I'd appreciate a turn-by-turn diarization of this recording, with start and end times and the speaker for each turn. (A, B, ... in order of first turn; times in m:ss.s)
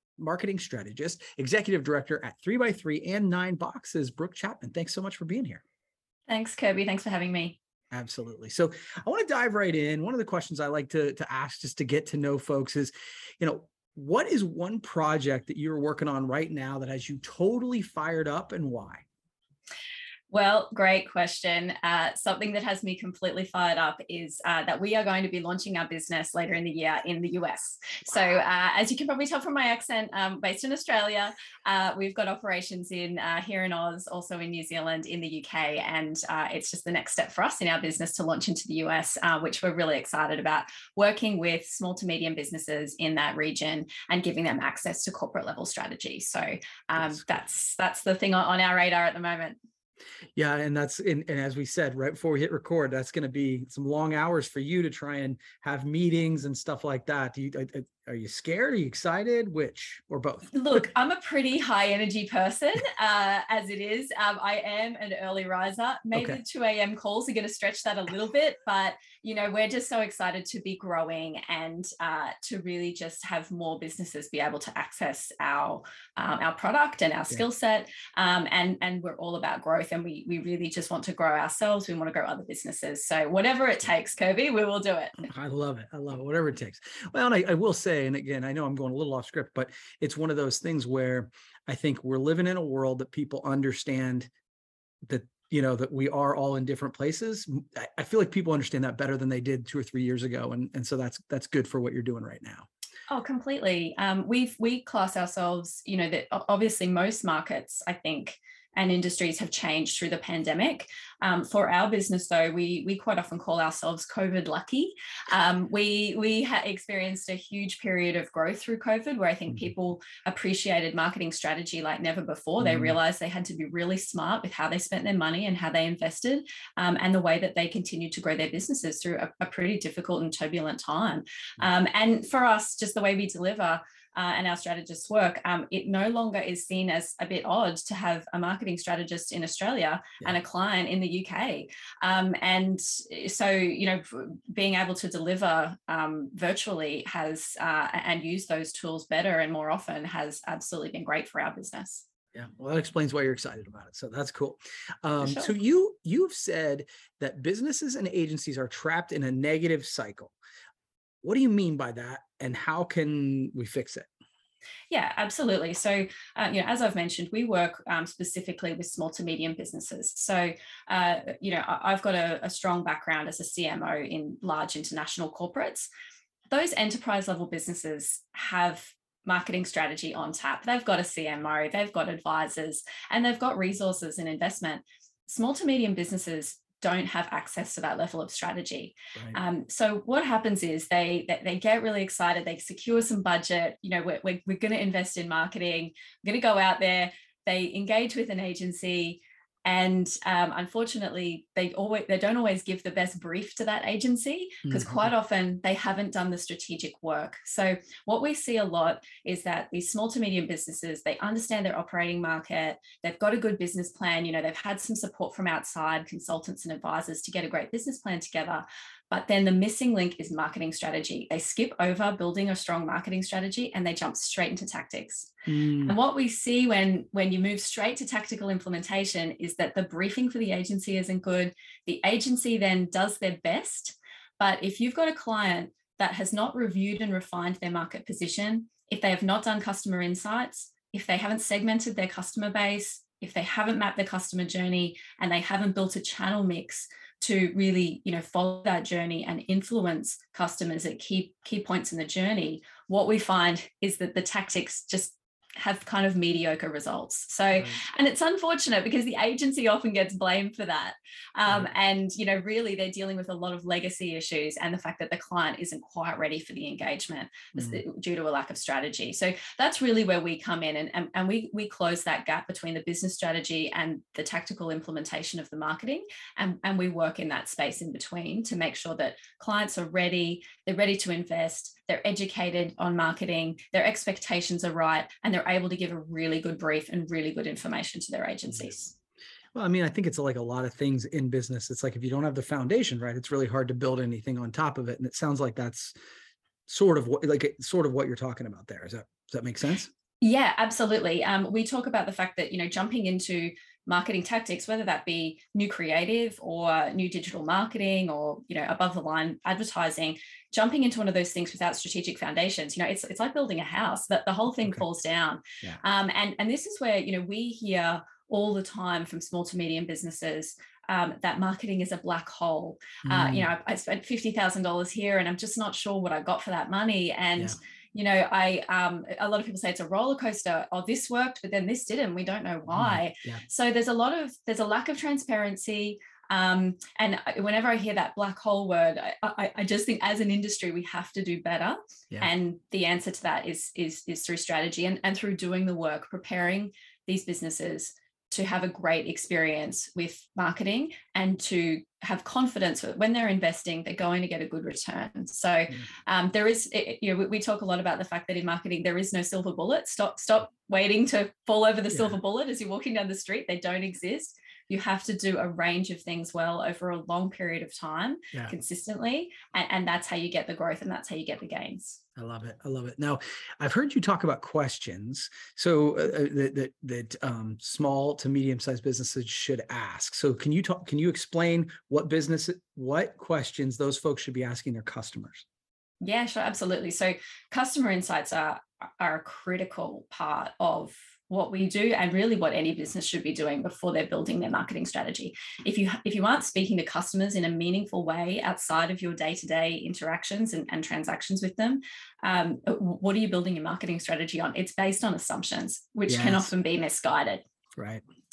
0:00.2-0:05.6 A
0:06.3-0:07.6 B
0:07.9-0:19.0 A
0:20.3-0:49.6 B
0:47.0-0:47.3 A
0:50.4-1:00.8 A
1:00.5-1:25.2 B
1:06.1-1:06.4 A
1:25.2-1:34.3 A
1:35.1-1:42.7 A
1:43.1-2:32.0 B
2:02.6-2:03.0 A
2:32.3-2:40.3 A
2:35.2-2:35.5 B
2:41.2-2:44.1 A
2:44.9-2:55.9 B
2:56.5-4:48.9 B
3:24.6-3:25.1 A
3:45.5-3:46.0 A
4:17.5-4:17.8 A
4:27.5-4:27.8 A
4:49.5-4:55.9 A
4:56.7-4:59.9 A
5:00.2-6:12.0 B
5:23.0-5:23.5 A
5:32.7-5:33.4 A
6:01.9-6:02.2 A
6:12.2-6:25.4 A
6:26.0-6:47.4 B
6:46.1-6:46.5 A
6:47.8-6:48.0 A